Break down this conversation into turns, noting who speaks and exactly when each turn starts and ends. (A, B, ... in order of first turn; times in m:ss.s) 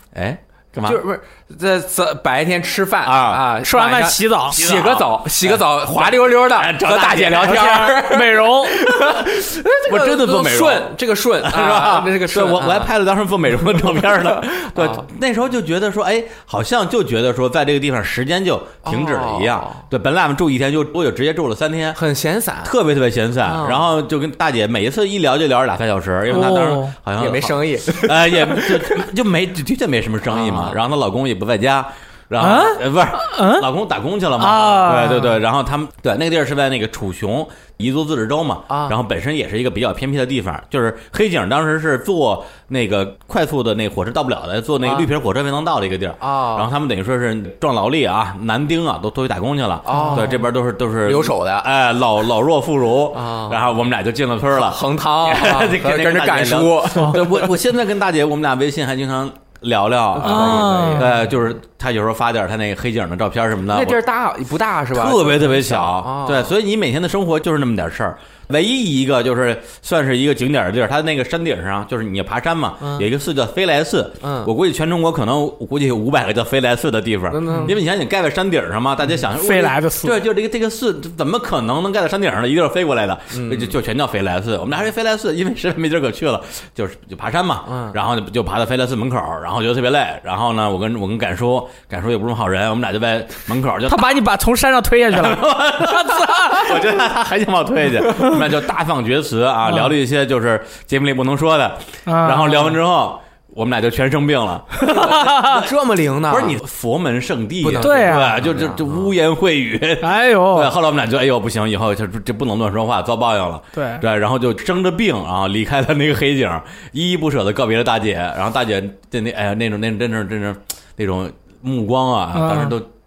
0:00.1-0:01.0 A
0:00.8-0:12.9 B
0:03.0-0:03.5 A
0:03.6-0:04.6 C
0:04.5-0:08.0 A
0:07.4-0:08.8 C
0:09.9-0:22.0 A
0:13.6-0:15.0 B
0:18.8-0:19.8 B
0:22.0-0:22.7 B
0:22.6-1:04.0 A
0:23.4-0:23.8 B
0:26.3-0:27.0 C
0:27.2-0:29.0 B
0:30.3-0:30.8 B
0:32.4-0:33.7 C
0:34.4-0:35.4 C
0:38.7-0:39.0 B
0:44.8-0:45.1 B
0:46.2-0:46.7 B
0:49.9-0:50.5 B
0:49.9-0:50.3 C
0:51.0-0:51.7 B
0:53.1-0:53.7 B
0:54.5-0:57.5 B
1:00.2-1:01.2 B
1:00.2-1:01.1 C
1:03.7-1:06.5 B
1:04.9-1:34.2 A
1:12.8-1:13.1 B
1:14.2-1:14.5 B
1:17.3-1:17.8 B
1:19.4-1:20.2 C
1:23.3-1:23.8 B
1:27.7-1:28.0 B
1:33.9-1:36.7 C
1:35.1-1:45.6 A
1:42.1-1:42.7 C
1:44.8-1:45.6 C
1:45.4-1:46.6 B
1:46.3-2:02.9 A
1:47.6-1:49.1 B
1:47.8-1:48.4 C
1:50.0-1:50.7 C
1:53.8-1:54.0 C
2:02.3-2:02.8 C